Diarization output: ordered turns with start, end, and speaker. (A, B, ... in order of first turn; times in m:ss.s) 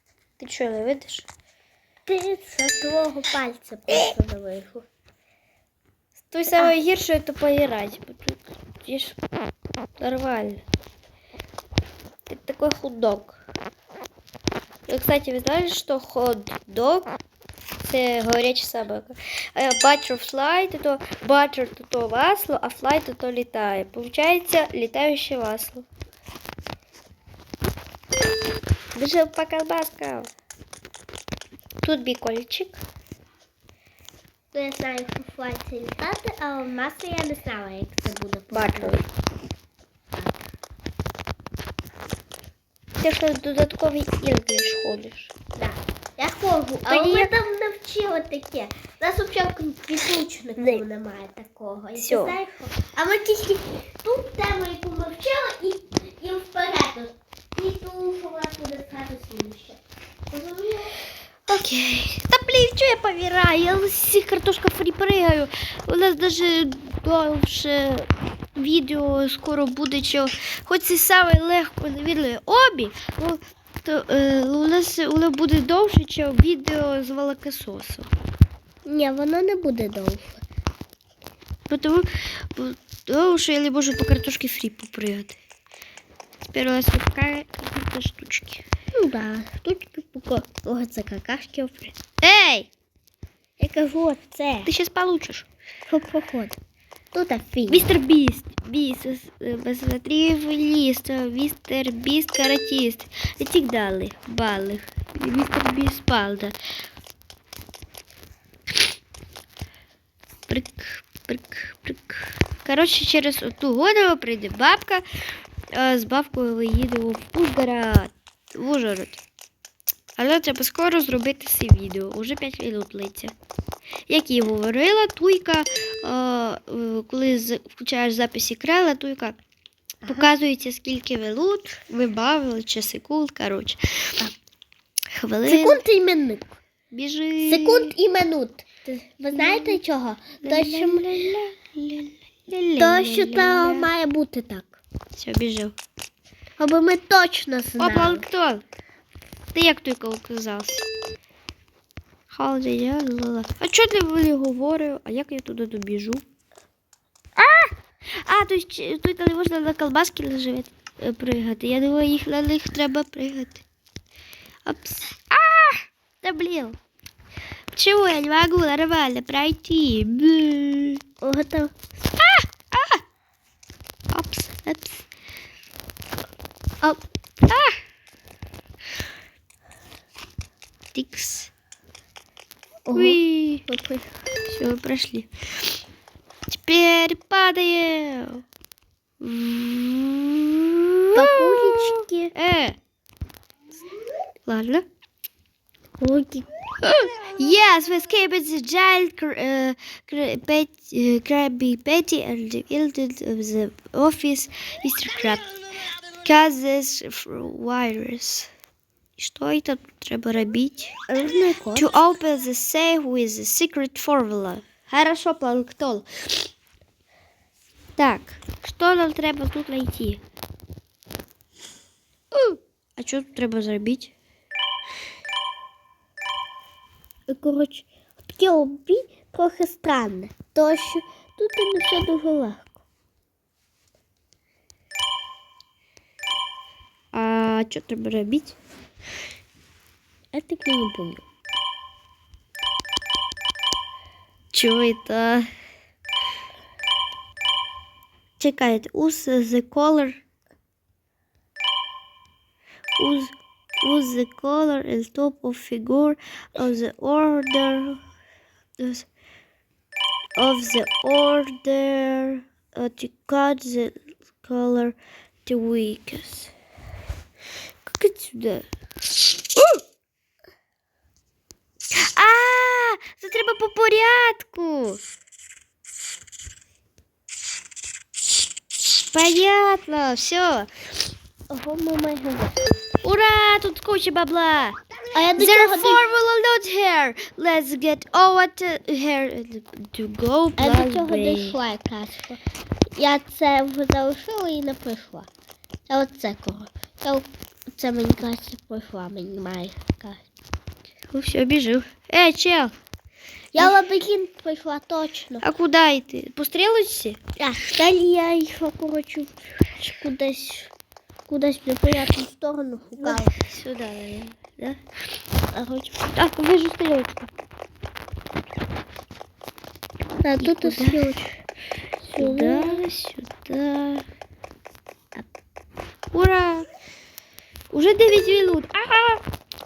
0:00.4-0:01.3 A
0:02.1-0:04.8 B
0:06.3-0:09.2 A
0:06.5-0:06.8 B
0:10.0-0:10.6 A
0:12.3-0:13.4 A
0:14.9-0:17.2 A
0:17.8-0:25.8 A
0:29.0-0:30.3 A
0:31.8-0:32.8 A
0:34.5-0:39.0 B
0:38.5-0:39.0 A
0:40.1-0:40.5 B
0:43.0-0:45.4 A
0:45.6-0:59.8 B
0:46.9-0:47.3 A
0:50.6-0:50.8 A
0:52.0-0:52.4 A
1:00.3-1:00.9 B
1:01.5-1:18.1 A
1:18.9-1:20.4 B
1:21.7-1:25.4 A
1:26.5-1:28.6 A
1:29.0-1:32.0 B
1:32.2-1:32.7 A
1:33.6-1:34.7 B
1:34.6-1:35.5 A
1:35.9-1:36.6 B
1:37.1-1:37.9 B
1:37.7-1:46.6 A
1:50.5-1:55.0 A
1:55.7-1:59.2 A
2:00.2-2:03.3 A
2:04.1-2:09.4 A
2:10.0-2:14.1 A
2:15.2-2:15.8 A
2:15.4-2:16.6 B
2:16.9-2:18.0 A
2:17.4-2:21.1 B
2:19.3-2:19.8 A
2:20.4-2:23.9 A
2:22.8-2:24.8 B
2:25.2-2:25.8 A
2:26.6-2:28.2 B
2:27.8-2:28.6 A
2:29.5-2:30.8 A
2:32.3-2:36.2 A
2:37.4-2:43.6 A
2:44.6-2:46.8 A
2:47.7-2:51.0 A
2:51.2-2:51.8 B
2:52.2-2:53.0 A
2:54.1-2:55.0 A
2:57.5-2:57.8 A
3:00.9-3:01.5 A
3:02.9-3:04.1 B
3:02.9-3:03.6 A
3:04.5-3:05.3 A
3:06.5-3:08.4 A
3:09.2-3:12.8 A
3:11.1-3:12.3 B
3:14.5-3:14.8 A
3:16.0-3:16.5 B
3:16.8-3:25.5 A
3:26.2-3:28.5 A
3:29.2-3:31.0 A
3:31.1-3:32.0 B
3:31.7-3:36.1 A
3:38.0-3:40.2 A
3:42.3-3:44.1 A
3:47.3-3:52.8 B
3:57.1-3:58.6 A
4:00.3-4:01.2 B
4:04.5-4:05.5 A
4:08.4-4:10.2 A
4:13.0-4:18.0 A
4:18.8-4:19.1 A
4:20.4-4:26.5 A
4:27.9-4:28.7 A
4:29.6-4:29.8 A
4:31.9-4:35.0 A
4:39.1-4:40.7 A
4:41.5-4:43.0 B
4:43.0-4:44.8 A
4:45.1-4:46.0 B
4:45.4-4:51.6 A
4:50.6-4:52.4 B
4:53.0-4:55.3 B
4:55.9-5:00.3 B
5:01.1-5:02.7 A
5:03.5-5:05.5 B
5:05.4-5:07.2 A
5:07.4-5:10.7 B
5:11.3-5:13.4 B
5:13.0-5:14.8 A
5:15.5-5:16.0 B
5:16.0-5:17.3 A
5:20.2-5:21.3 B
5:20.4-5:21.3 A
5:22.1-5:22.8 B
5:22.2-5:24.0 A
5:26.1-5:26.7 A
5:27.7-5:29.2 A